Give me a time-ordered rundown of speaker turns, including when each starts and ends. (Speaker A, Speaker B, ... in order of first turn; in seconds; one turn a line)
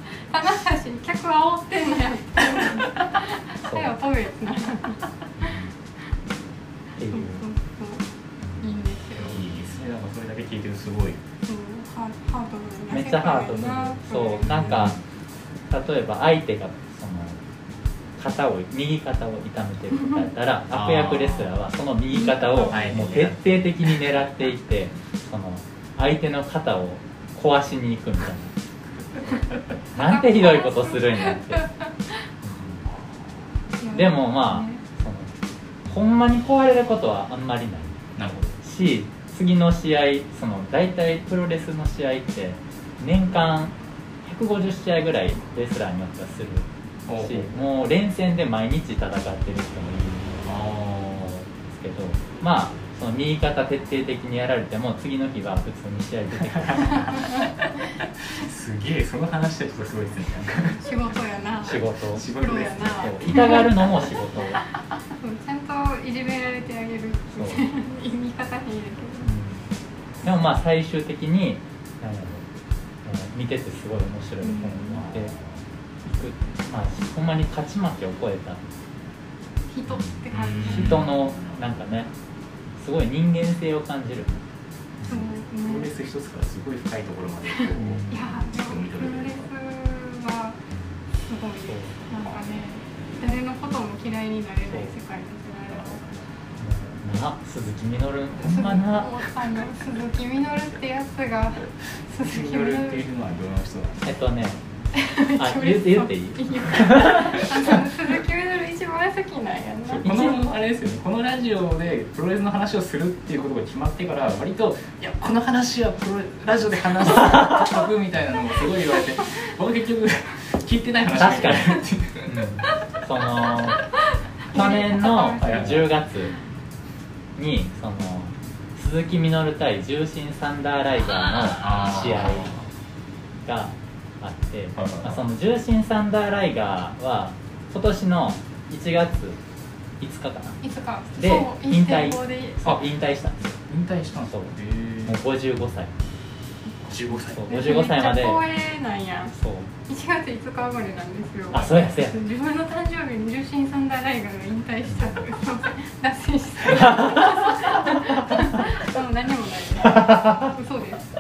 Speaker A: 0.2-5.5
Speaker B: 3.6-3.9
Speaker B: 5.4-5.7
Speaker B: 7.0-7.4
Speaker A: 7.1-8.0
Speaker A: 8.6-9.4
Speaker C: 9.2-11.2
Speaker A: 11.5-14.9
Speaker B: 12.9-15.0
Speaker B: 15.7-17.4
Speaker B: 18.2-28.6
Speaker C: 20.7-21.5
Speaker A: 22.1-22.8
Speaker C: 22.7-24.0
Speaker B: 29.9-31.7
Speaker A: 30.0-31.9
Speaker B: 32.4-32.8
Speaker A: 33.8-34.8
Speaker B: 33.9-35.3
Speaker B: 35.9-46.7
Speaker C: 38.2-38.5
Speaker C: 47.1-47.5
Speaker B: 47.2-50.4
Speaker C: 50.5-51.4
Speaker B: 51.2-57.2
Speaker C: 56.5-57.1
Speaker A: 57.1-57.5
Speaker C: 58.3-60.9
Speaker A: 60.8-63.9
Speaker B: 61.6-62.2
Speaker C: 61.7-63.6
Speaker B: 63.0-64.6
Speaker A: 65.2-69.3
Speaker B: 67.4-67.6
Speaker B: 69.2-69.6
Speaker B: 70.2-72.5
Speaker B: 73.0-75.3
Speaker A: 74.4-75.0
Speaker C: 75.0-75.6
Speaker B: 76.0-78.6
Speaker A: 79.7-81.1
Speaker C: 80.3-81.6
Speaker B: 80.6-82.1
Speaker B: 82.8-84.4
Speaker B: 85.0-85.3
Speaker A: 85.0-85.9
Speaker C: 85.1-89.5
Speaker B: 87.8-88.3
Speaker A: 88.1-90.6
Speaker A: 91.3-96.0
Speaker B: 91.7-92.0
Speaker B: 94.7-94.9
Speaker C: 95.7-96.2
Speaker B: 96.6-99.2
Speaker A: 98.4-103.0
Speaker C: 102.2-104.0
Speaker B: 104.0-104.6
Speaker A: 104.9-110.4
Speaker B: 105.4-107.5
Speaker C: 110.0-122.3
Speaker B: 121.2-123.8
Speaker A: 124.5-125.8
Speaker B: 124.5-126.3
Speaker C: 125.4-125.8
Speaker B: 127.4-132.5
Speaker C: 131.6-132.7
Speaker B: 133.4-139.4
Speaker C: 134.8-135.2
Speaker B: 140.0-140.6
Speaker A: 140.6-142.6
Speaker B: 141.2-143.6
Speaker C: 143.7-145.2
Speaker B: 144.3-144.5
Speaker B: 145.1-145.9
Speaker C: 146.9-147.5
Speaker B: 147.2-148.4
Speaker A: 147.5-149.3
Speaker B: 149.3-149.7
Speaker A: 149.9-161.1
Speaker B: 151.5-152.2
Speaker B: 154.9-155.2
Speaker B: 156.7-158.7
Speaker B: 159.8-160.5